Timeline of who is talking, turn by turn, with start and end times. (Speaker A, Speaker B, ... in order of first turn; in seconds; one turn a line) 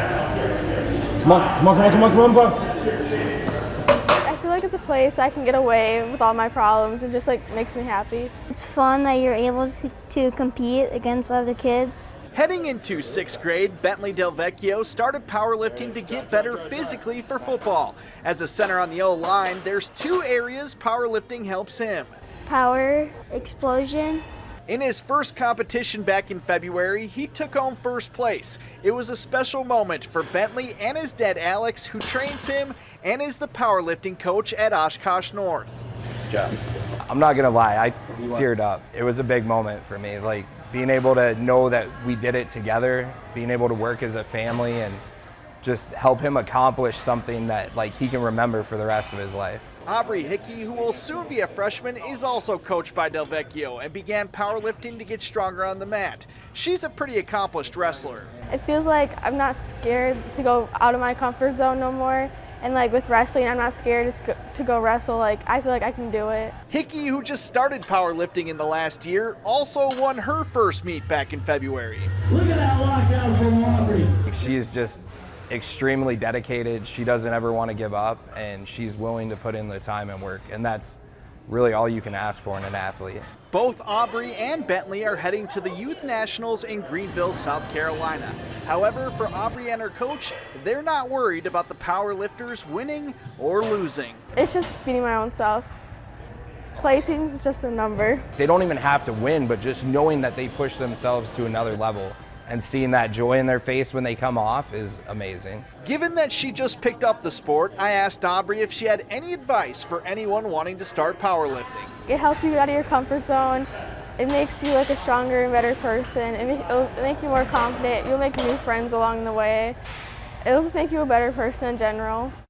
Speaker A: 1.3-2.0
Speaker B: 4.1-8.3
Speaker C: 8.5-12.2
Speaker D: 12.3-22.1
Speaker C: 22.5-24.2
Speaker D: 24.7-35.8
Speaker E: 37.0-45.0
Speaker E: 45.6-49.7
Speaker D: 49.9-58.3
Speaker B: 58.5-66.5
Speaker D: 66.7-72.1
Speaker A: 72.3-74.1
Speaker E: 74.2-83.2
Speaker D: 83.5-94.2
Speaker B: 94.3-95.7
Speaker B: 96.8-98.2
Speaker E: 98.4-105.7
Speaker D: 105.8-111.9
Speaker B: 112.1-113.7
Speaker B: 114.2-119.8
Speaker B: 120.4-122.3